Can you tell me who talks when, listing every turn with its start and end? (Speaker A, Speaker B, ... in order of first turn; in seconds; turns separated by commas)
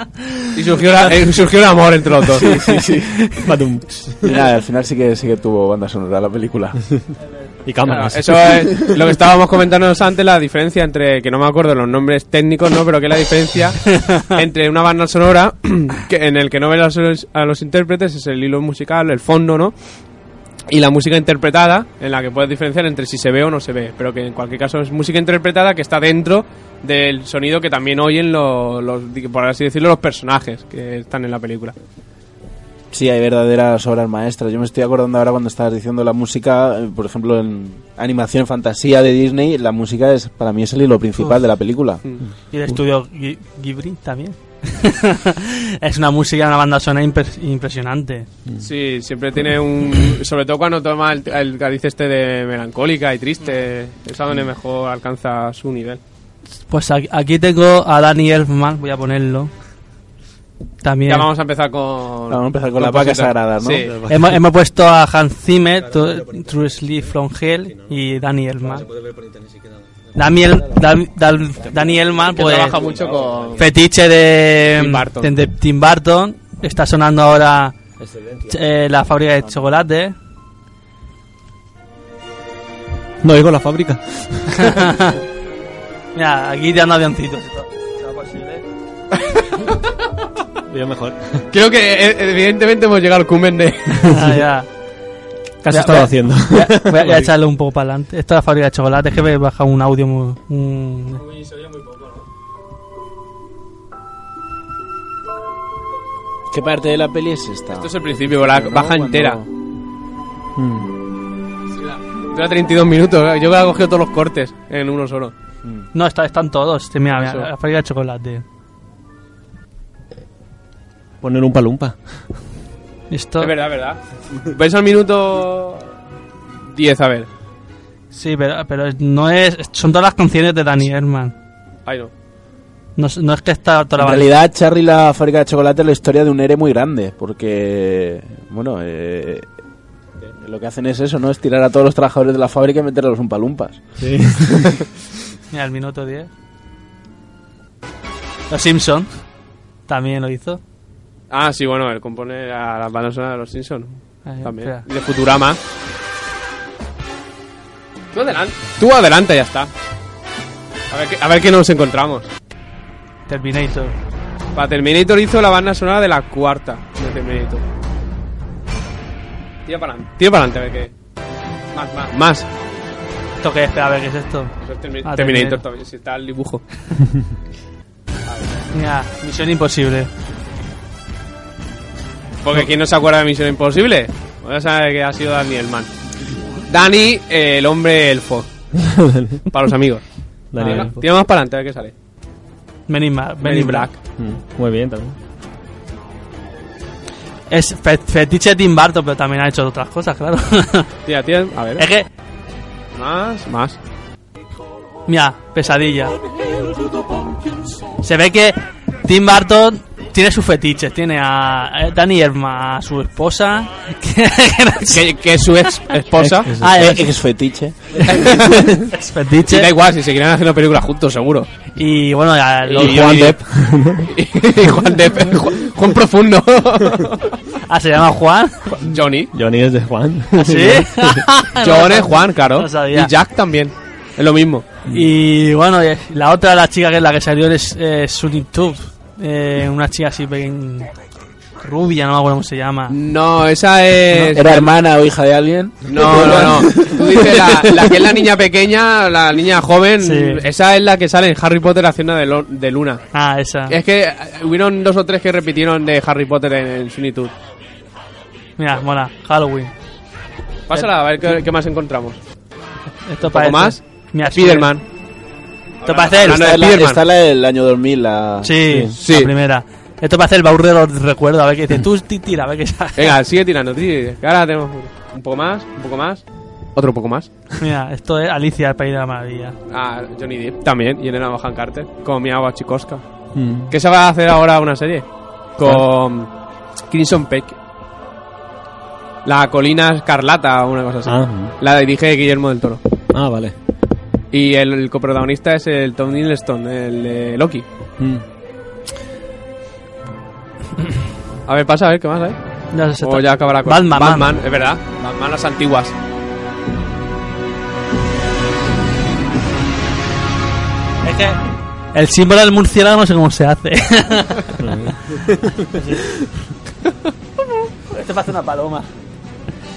Speaker A: 0.5-2.5, Speaker B: 2.4-3.2, Speaker C: 3.4-4.4, Speaker B: 4.2-6.8, Speaker C: 7.6-8.8, Speaker A: 7.8-19.7, Speaker A: 20.7-31.7, Speaker B: 32.9-42.0, Speaker D: 42.5-48.3, Speaker A: 48.6-56.0, Speaker D: 56.7-59.5, Speaker D: 60.8-61.3, Speaker A: 61.1-63.9, Speaker B: 62.3-63.9, Speaker C: 63.9-64.4, Speaker D: 64.1-68.9, Speaker C: 65.9-66.5, Speaker C: 68.7-69.9, Speaker D: 70.1-72.8, Speaker A: 72.3-73.6, Speaker C: 72.9-73.5, Speaker D: 73.5-77.7, Speaker A: 74.8-75.3, Speaker C: 78.0-78.6, Speaker D: 78.5-80.1, Speaker C: 83.2-84.7, Speaker D: 84.6-85.2, Speaker D: 86.1-88.6, Speaker A: 89.3-89.6, Speaker C: 90.7-91.4, Speaker A: 91.5-94.2, Speaker D: 94.0-94.7, Speaker C: 95.6-97.3, Speaker D: 95.7-101.3, Speaker B: 106.5-109.5, Speaker A: 107.8-109.4, Speaker C: 110.6-110.9, Speaker A: 111.8-115.3, Speaker D: 115.9-118.4, Speaker A: 117.1-117.5, Speaker C: 121.2-122.0, Speaker D: 123.1-123.5, Speaker A: 123.4-125.9, Speaker A: 126.7-127.3, Speaker D: 128.1-131.3, Speaker A: 131.8-132.1, Speaker D: 133.0-134.3, Speaker B: 134.0-139.4, Speaker B: 140.4-143.8, Speaker C: 144.0-144.7, Speaker D: 145.5-146.3, Speaker D: 148.5-149.1, Speaker D: 149.9-150.6, Speaker A: 151.3-155.6, Speaker D: 154.2-154.8, Speaker A: 158.1-159.7, Speaker A: 160.9-162.3, Speaker D: 163.3-163.9, Speaker A: 164.5-167.6, Speaker A: 169.7-170.9, Speaker A: 171.7-172.5, Speaker D: 173.4-174.5, Speaker A: 174.6-176.6, Speaker D: 175.0-175.6, Speaker D: 178.7-180.1, Speaker A: 182.4-185.9, Speaker A: 186.7-188.5, Speaker C: 188.8-189.5, Speaker A: 189.5-190.0, Speaker C: 190.5-190.9, Speaker D: 190.6-190.9, Speaker A: 190.6-191.9, Speaker D: 192.9-193.9, Speaker A: 193.4-194.0, Speaker C: 194.2-195.2, Speaker D: 197.5-200.9, Speaker A: 201.0-201.9, Speaker D: 201.8-202.1, Speaker A: 202.9-203.8, Speaker D: 205.1-206.2, Speaker D: 208.0-215.0, Speaker A: 214.9-216.5, Speaker D: 216.2-217.0, Speaker C: 216.4-216.8, Speaker B: 216.7-218.0, Speaker D: 217.9-219.7, Speaker A: 218.1-218.9, Speaker A: 219.4-221.5, Speaker D: 221.8-223.4, Speaker A: 222.7-223.4, Speaker C: 222.8-224.1, Speaker A: 224.0-227.4, Speaker D: 227.7-228.9, Speaker A: 228.8-229.3, Speaker C: 229.3-231.2, Speaker D: 230.3-233.1, Speaker A: 231.5-234.7, Speaker D: 234.9-240.9, Speaker D: 241.6-242.9, Speaker A: 242.9-244.7, Speaker B: 244.3-248.1, Speaker A: 245.9-253.0, Speaker D: 250.0-250.4, Speaker D: 253.1-253.8, Speaker A: 253.7-257.3, Speaker D: 258.6-259.7, Speaker A: 260.7-262.2, Speaker D: 260.7-261.3, Speaker D: 263.0-264.7, Speaker A: 263.2-264.8, Speaker A: 265.8-267.0, Speaker D: 265.8-266.4, Speaker B: 266.2-268.5, Speaker D: 268.4-273.1, Speaker C: 268.6-268.9, Speaker A: 269.0-269.3, Speaker A: 273.0-277.5, Speaker D: 277.6-279.5, Speaker A: 279.7-283.0, Speaker C: 283.3-283.7, Speaker A: 283.6-286.3, Speaker A: 286.9-287.6, Speaker A: 289.2-292.8, Speaker C: 291.1-291.6, Speaker C: 293.1-293.5, Speaker A: 294.3-297.6, Speaker A: 301.5-305.9, Speaker D: 302.7-304.3, Speaker D: 311.0-311.4, Speaker D: 311.9-314.5, Speaker C: 314.6-315.6, Speaker D: 315.7-316.1, Speaker D: 317.9-318.9